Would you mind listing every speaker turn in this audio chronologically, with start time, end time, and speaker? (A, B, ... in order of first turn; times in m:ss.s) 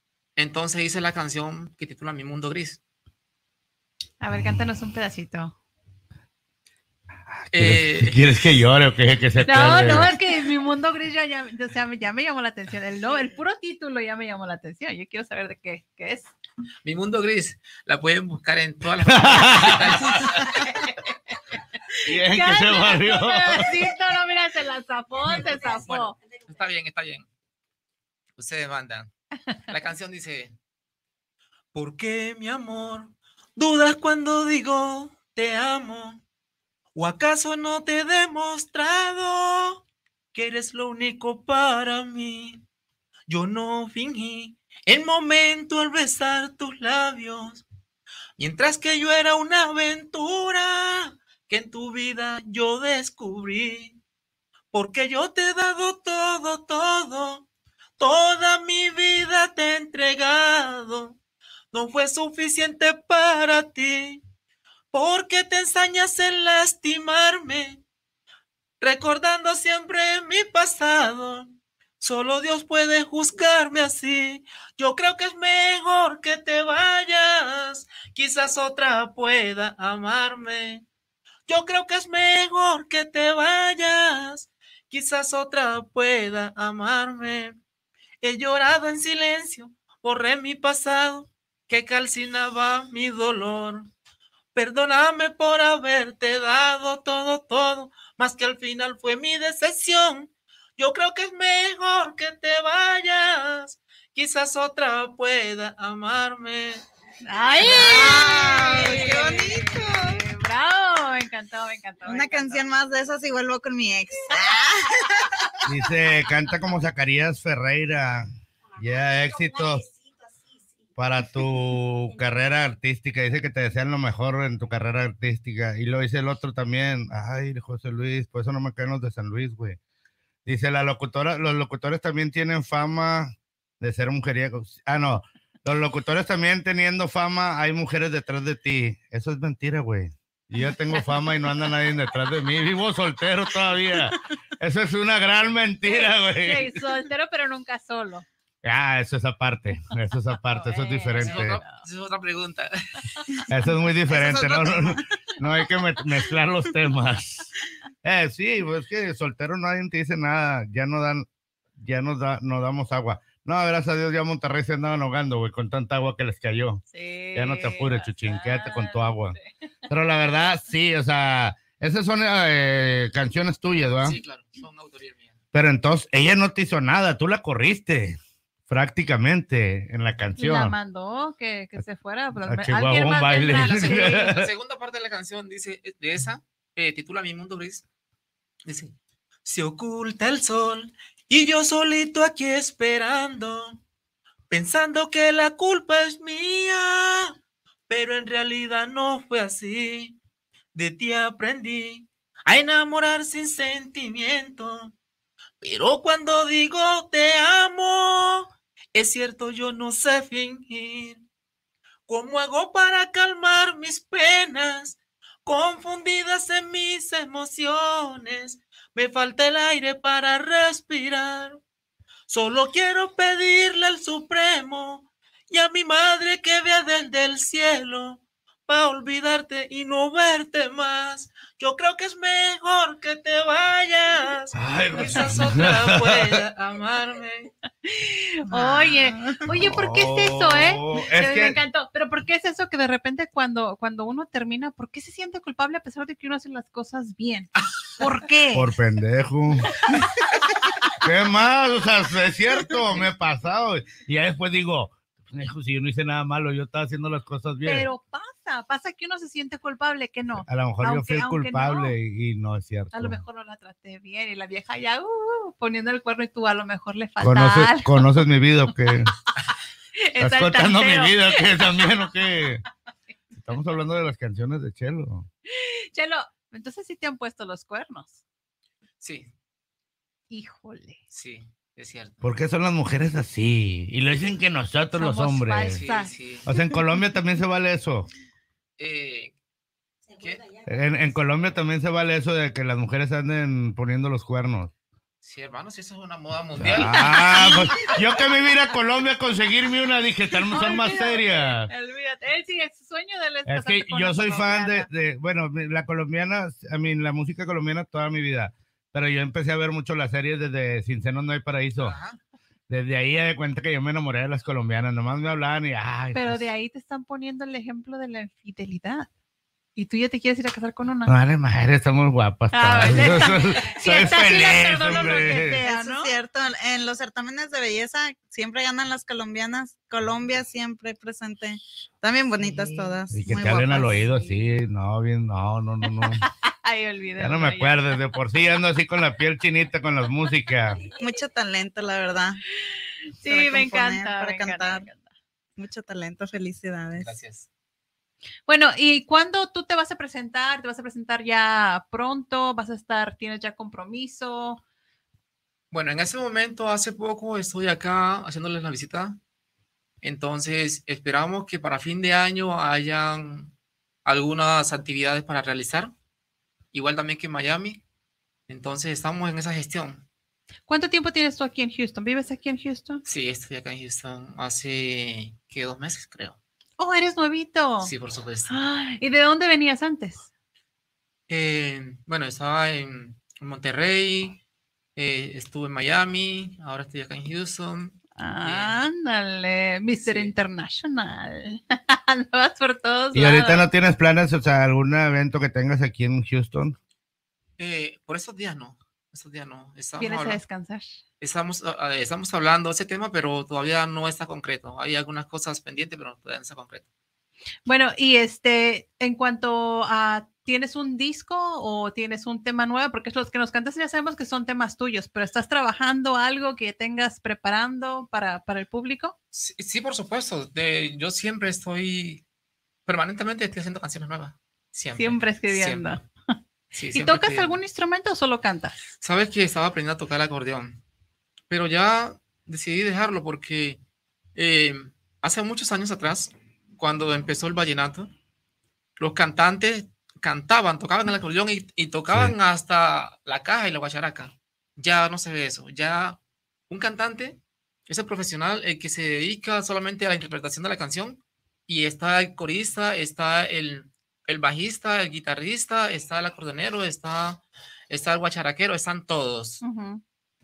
0:00.4-0:02.8 A
0:04.2-0:05.6 B
0:07.5-0:10.1 C
0:07.5-0:08.2 A
0:09.4-0:16.3 B
0:16.8-0:20.7 A
0:19.1-0:20.3 C
0:20.2-0:21.4 B
0:22.0-0:23.8 C
0:22.1-0:26.2 B
0:25.6-0:27.3 A
0:28.4-0:29.1 A
0:29.7-0:30.5 A
0:31.7-0:36.2 A
0:37.0-0:42.6 A
0:43.3-0:47.6 A
0:48.4-0:54.0 A
0:54.7-0:57.5 A
0:58.0-1:01.2 A
1:01.7-1:04.2 A
1:04.9-1:07.8 A
1:08.8-1:20.9 A
1:21.5-1:27.6 A
1:28.2-1:33.9 A
1:34.6-1:46.8 A
1:47.2-1:52.6 B
1:47.6-1:48.7 A
1:47.6-1:50.2 D
1:52.0-1:55.6 D
1:55.6-1:59.9 C
2:01.0-2:09.8 C
2:10.5-2:26.8 C
2:20.9-2:21.2 B
2:25.9-2:28.3 B
2:28.6-2:31.6 C
2:30.5-2:31.8 B
2:31.2-2:33.2 A
2:33.5-2:37.5 C
2:34.1-2:35.0 D
2:38.0-2:41.3 C
2:41.8-2:46.8 C
2:46.9-2:49.5 B
2:47.4-2:49.4 C
2:49.9-2:54.2 C
2:54.0-2:55.4 A
2:55.5-3:00.8 C
3:00.4-3:04.2 B
3:02.4-3:04.5 C
3:03.5-3:07.9 A
3:08.6-3:13.8 A
3:14.5-3:17.4 A
3:17.9-3:20.2 A
3:20.8-3:24.9 A
3:25.6-3:31.2 A
3:32.1-3:41.6 A
3:42.3-3:57.5 A
3:54.5-3:56.4 C
3:57.8-4:08.7 B
3:58.5-3:59.5 D
3:59.5-4:01.6 C
4:08.5-4:09.9 C
4:11.0-4:17.9 C
4:17.6-4:22.0 B
4:20.4-4:23.2 C
4:22.9-4:28.0 B
4:27.2-4:29.1 C
4:30.0-4:31.9 B
4:30.2-4:32.6 C
4:33.3-4:35.3 C
4:35.5-4:38.2 B
4:39.0-4:39.3 A
4:40.3-4:41.0 B
4:41.1-4:42.2 A
4:42.2-4:45.8 C
4:44.9-4:46.6 B
4:45.7-4:46.5 A
4:46.5-4:48.1 C
4:48.8-4:49.3 A
4:50.2-4:50.5 A
4:50.7-4:54.7 C
4:55.2-4:57.5 A
4:56.6-5:01.7 C
4:56.8-4:58.2 B
5:00.5-5:04.9 B
5:03.5-5:12.0 C
5:11.8-5:12.2 A
5:12.7-5:16.4 C
5:16.1-5:19.1 B
5:19.8-5:21.2 B
5:21.1-5:25.6 C
5:22.5-5:26.1 B
5:22.8-5:23.4 A
5:25.2-5:34.1 D
5:33.2-5:36.2 C
5:36.0-5:37.8 B
5:37.2-5:40.8 C
5:41.0-5:42.4 D
5:42.6-5:45.0 B
5:43.3-5:44.9 D
5:45.6-5:47.1 D
5:47.0-5:47.5 A
5:48.5-5:54.6 B
5:55.7-5:59.2 A
6:00.0-6:05.9 A
6:06.7-6:07.8 A
6:08.5-6:10.0 A
6:10.7-6:13.0 B
6:13.1-6:16.4 A
6:16.8-6:17.9 B
6:17.8-6:18.5 A
6:18.5-6:20.3 B
6:21.3-6:24.4 A
6:25.0-6:28.8 A
6:28.2-6:33.7 B
6:30.0-6:30.3 A
6:33.1-6:36.8 C
6:37.6-6:40.4 A
6:40.0-6:40.9 B
6:41.2-6:46.9 A
6:47.7-6:59.2 B
6:59.3-7:02.2 A
7:02.9-7:05.9 A
7:05.0-7:06.0 B
7:06.7-7:07.6 A
7:06.9-7:08.8 B
7:09.0-7:10.8 A
7:11.5-7:13.8 A
7:14.4-7:18.1 A
7:19.0-7:39.6 A
7:22.1-7:22.4 C
7:39.6-7:40.0 B